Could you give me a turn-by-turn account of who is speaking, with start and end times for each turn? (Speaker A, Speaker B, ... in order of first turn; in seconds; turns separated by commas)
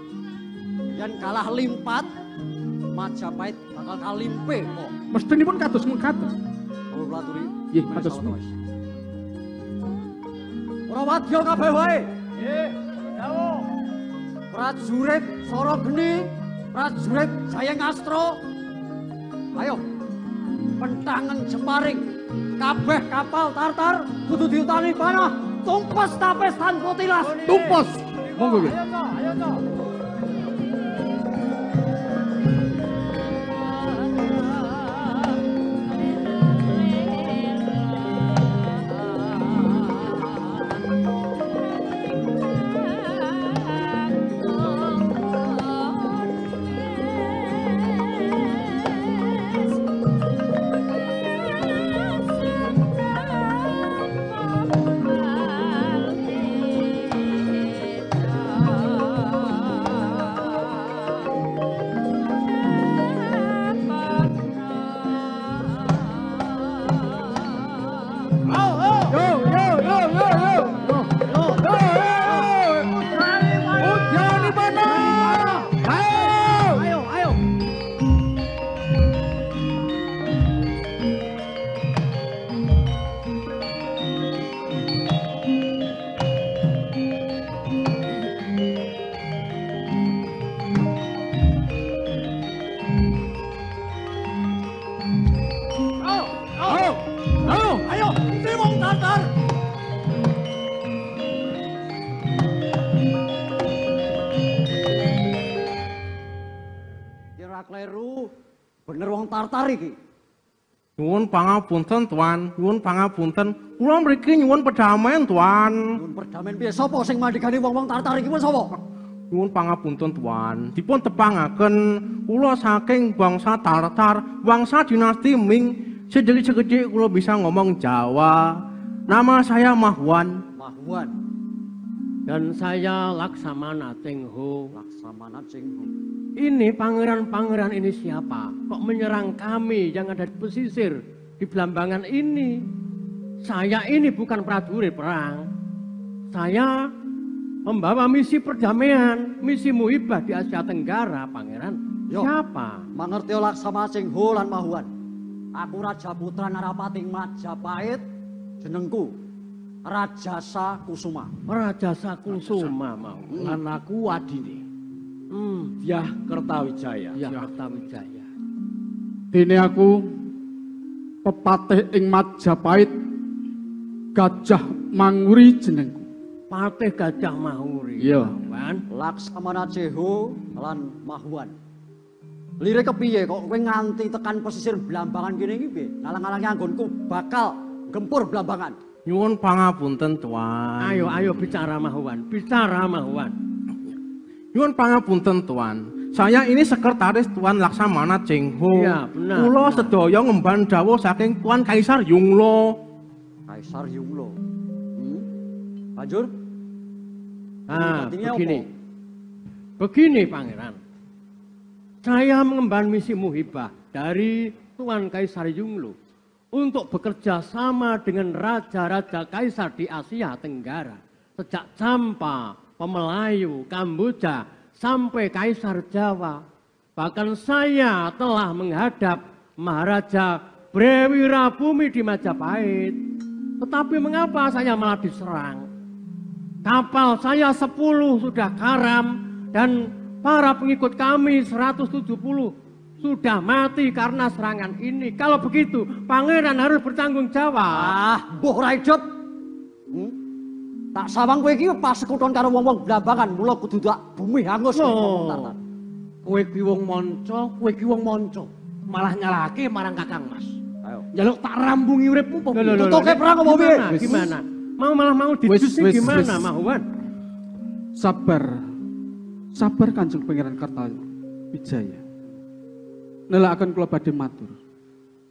Speaker A: 0.9-2.1, Speaker A: 2.9-4.9, Speaker B: 5.1-6.3, Speaker A: 6.9-8.6, Speaker B: 7.7-8.3, Speaker A: 10.9-12.1, Speaker A: 14.5-18.4, Speaker A: 19.5-19.8, Speaker A: 20.8-22.0, Speaker A: 22.6-27.9, Speaker C: 27.3-27.8, Speaker B: 27.5-28.8, Speaker C: 28.4-29.5, Speaker B: 69.1-73.0, Speaker A: 71.3-72.4, Speaker A: 73.1-73.7, Speaker B: 73.8-76.8, Speaker D: 75.0-77.3, Speaker A: 96.0-96.9, Speaker B: 96.7-96.9, Speaker B: 97.5-97.8, Speaker A: 97.5-99.3, Speaker A: 107.4-108.3, Speaker A: 108.9-110.0, Speaker E: 111.0-115.9, Speaker A: 116.0-118.7, Speaker E: 119.3-130.4, Speaker A: 130.6-131.2, Speaker C: 132.3-134.7, Speaker A: 134.7-135.9, Speaker C: 136.4-142.5, Speaker C: 143.4-145.4, Speaker C: 146.3-146.7, Speaker C: 147.7-152.8, Speaker A: 152.9-154.9, Speaker A: 155.6-158.0, Speaker A: 158.6-159.1, Speaker A: 159.8-161.3, Speaker C: 161.5-163.5, Speaker D: 163.4-164.6, Speaker C: 165.3-165.7, Speaker D: 165.8-167.2, Speaker C: 167.2-168.3, Speaker B: 169.3-170.0, Speaker B: 171.2-172.9, Speaker B: 174.2-176.1, Speaker C: 176.5-178.8, Speaker B: 178.0-178.3, Speaker A: 178.9-181.5, Speaker A: 182.6-188.8, Speaker E: 189.1-191.3, Speaker C: 190.8-193.3, Speaker E: 194.5-202.8, Speaker C: 198.7-199.9, Speaker A: 203.5-204.3, Speaker A: 205.0-205.3, Speaker A: 206.0-206.3, Speaker C: 207.7-208.7, Speaker A: 207.7-208.7, Speaker C: 209.8-210.8, Speaker C: 212.0-215.9, Speaker C: 216.6-226.4, Speaker C: 227.0-232.9, Speaker C: 233.6-235.7, Speaker C: 236.7-248.0, Speaker A: 247.7-249.0, Speaker A: 250.9-255.6, Speaker C: 254.7-255.5, Speaker D: 256.2-260.5, Speaker D: 261.1-263.1, Speaker C: 262.5-266.8, Speaker A: 262.8-263.9, Speaker D: 263.9-264.4, Speaker B: 265.5-266.5, Speaker B: 268.0-268.5, Speaker B: 269.6-272.0, Speaker B: 273.3-274.6